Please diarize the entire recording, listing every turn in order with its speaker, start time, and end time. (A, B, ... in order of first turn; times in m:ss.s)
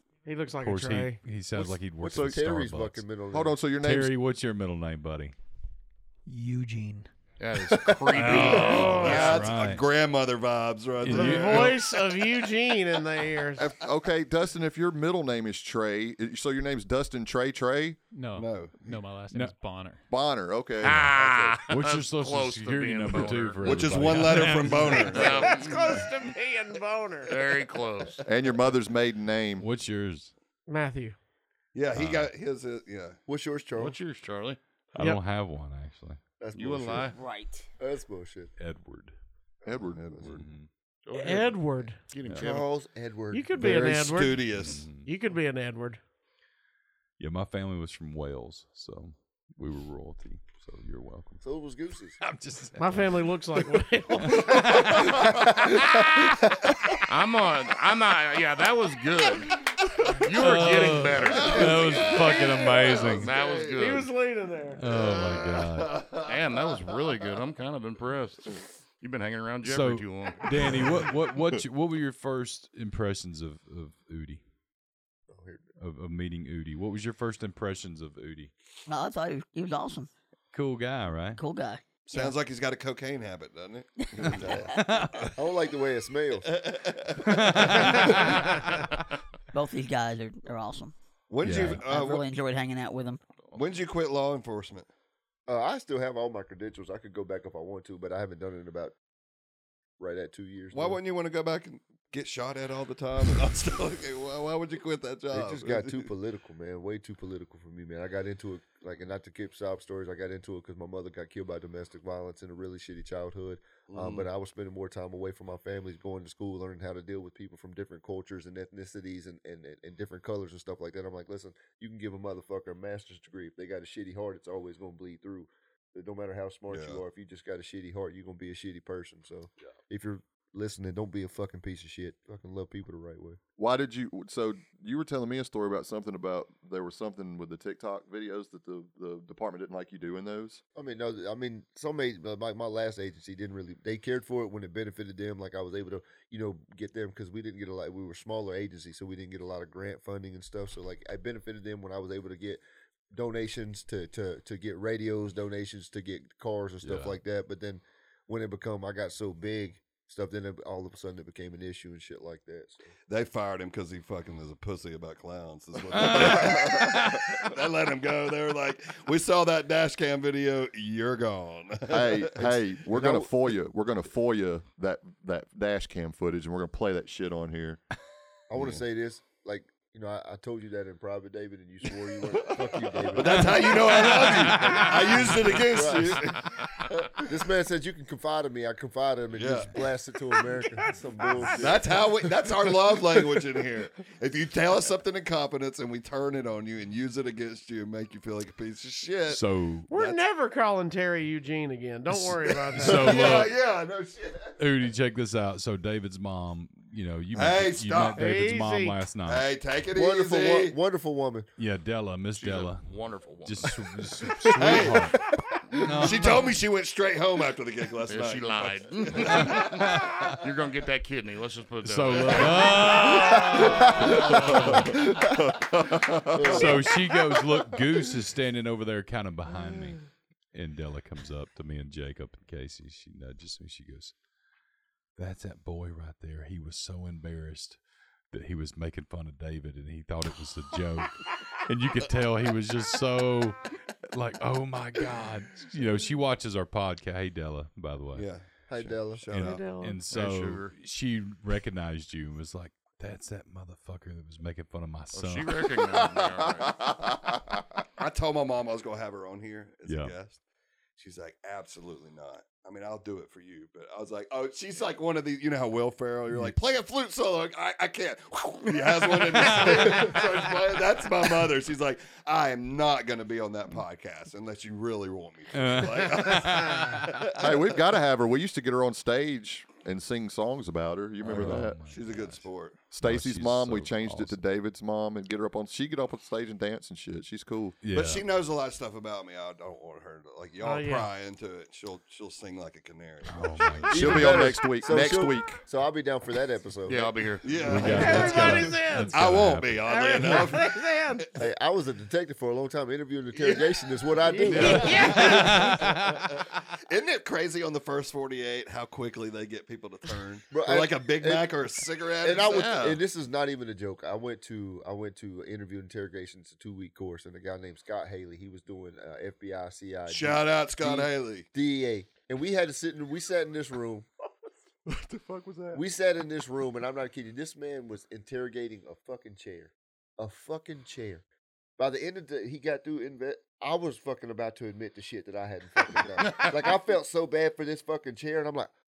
0:00.2-0:01.2 A
0:00.6-0:03.0 B
0:01.6-0:02.4 C
0:01.6-0:03.6 D
0:03.3-0:04.1 C
0:03.8-0:05.3 B
0:06.2-0:07.1 E
0:07.4-0:09.4 F
0:08.1-0:09.8 B
0:08.2-0:11.9 G
0:08.2-0:09.4 A
0:11.0-0:11.8 B
0:11.1-0:13.8 A
0:13.6-0:18.0 C
0:18.1-0:20.0 E
0:18.3-0:18.9 G
0:20.1-0:21.1 C
0:20.8-0:24.2 F
0:20.8-0:21.1 B
0:21.2-0:21.5 D
0:21.7-0:25.3 B
0:23.6-0:26.0 G
0:24.7-0:27.3 A
0:25.1-0:26.1 F
0:27.3-0:28.2 F
0:28.2-0:29.6 C
0:29.6-0:30.3 B
0:30.7-0:31.2 A
0:31.7-0:33.2 G
0:31.9-0:32.3 B
0:33.3-0:34.0 D
0:33.8-0:34.6 F
0:34.9-0:36.2 B
0:36.4-0:37.1 D
0:36.5-0:37.2 F
0:37.1-0:37.6 H
0:37.8-0:38.5 D
0:38.6-0:39.1 B
0:39.6-0:40.4 C
0:40.0-0:40.2 G
0:40.2-0:40.7 B
0:41.0-0:42.7 F
0:41.1-0:42.0 A
0:42.3-0:43.8 D
0:43.3-0:46.0 A
0:43.6-0:44.9 G
0:44.4-0:45.1 B
0:47.2-0:51.4 B
0:51.4-0:52.2 D
0:52.2-0:53.2 B
0:52.8-0:55.0 A
0:54.1-0:56.1 B
0:54.9-0:56.4 D
0:57.0-0:59.6 F
1:00.1-1:04.1 F
1:00.2-1:03.3 B
1:01.2-1:04.0 G
1:03.7-1:04.8 A
1:04.8-1:06.0 B
1:04.8-1:06.8 G
1:06.2-1:11.0 F
1:09.6-1:14.4 B
1:15.3-1:15.7 D
1:15.8-1:18.5 B
1:18.9-1:20.1 H
1:20.5-1:21.4 B
1:21.4-1:22.3 H
1:22.0-1:25.3 G
1:24.1-1:24.9 H
1:24.2-1:24.8 D
1:24.7-1:25.3 B
1:25.3-1:26.9 D
1:26.5-1:28.6 G
1:27.2-1:28.4 B
1:28.1-1:28.4 D
1:29.5-1:30.9 H
1:31.3-1:32.2 G
1:31.4-1:31.8 B
1:31.8-1:33.2 H
1:33.5-1:34.9 G
1:35.5-1:38.9 D
1:40.0-1:41.0 D
1:40.7-1:46.1 G
1:45.3-2:13.4 D
1:53.9-1:54.3 G
2:06.7-2:07.0 G
2:13.6-2:20.6 C
2:20.7-2:32.6 D
2:33.1-2:42.9 D
2:36.8-2:37.1 B
2:43.1-2:52.4 G
2:45.9-2:47.4 B
2:46.1-2:46.7 C
2:51.9-2:57.8 C
2:52.4-2:53.3 D
2:58.5-3:06.4 D
3:02.2-3:07.2 G
3:03.4-3:04.9 B
3:07.1-3:13.6 D
3:09.3-3:09.8 G
3:11.5-3:20.2 G
3:19.3-3:19.9 B
3:19.9-3:23.4 A
3:22.1-3:23.6 B
3:22.3-3:24.6 G
3:24.6-3:29.5 B
3:27.3-3:28.3 G
3:28.2-3:29.0 A
3:29.2-3:30.7 G
3:29.9-3:31.5 D
3:31.6-3:32.8 B
3:32.4-3:33.9 F
3:33.4-3:35.2 B
3:34.5-3:35.1 G
3:34.6-3:35.0 D
3:35.7-3:36.5 B
3:35.9-3:36.3 D
3:35.9-3:40.3 G
3:38.1-3:44.1 F
3:39.3-3:40.3 B
3:41.8-3:45.0 B
3:43.1-3:45.6 D
3:44.6-3:46.7 C
3:46.2-3:46.9 D
3:46.4-3:50.0 B
3:50.5-3:54.1 B
3:55.2-3:57.8 B
3:58.3-4:08.3 B
4:08.1-4:09.6 G
4:08.7-4:09.3 D
4:09.3-4:15.5 B
4:09.4-4:10.0 A
4:10.1-4:10.7 F
4:15.1-4:16.9 F
4:18.0-4:20.4 G
4:19.8-4:20.1 B
4:21.0-4:37.8 G
4:29.3-4:30.2 B
4:29.9-4:30.1 D
4:35.5-4:37.2 B
4:37.4-4:42.2 C
4:41.2-4:42.8 G
4:41.2-4:44.4 B
4:42.9-4:47.8 C
4:47.8-4:48.2 B
4:47.9-4:54.4 G
4:50.6-4:51.1 A
4:53.3-4:54.5 B
4:53.9-4:55.6 C
4:53.9-4:57.2 D
4:56.8-4:58.0 F
4:57.4-5:01.2 G
4:57.6-5:00.4 B
4:57.8-4:59.2 A
4:59.8-5:01.3 A
5:01.4-5:05.3 D
5:03.3-5:13.0 G
5:04.2-5:05.6 A
5:04.5-5:05.0 F
5:05.1-5:06.2 B
5:10.5-5:11.5 D
5:12.2-5:24.1 D
5:20.1-5:21.4 G
5:24.9-5:25.8 G
5:25.5-5:25.8 C
5:25.7-5:31.2 D
5:31.8-5:38.7 D
5:36.2-5:36.5 F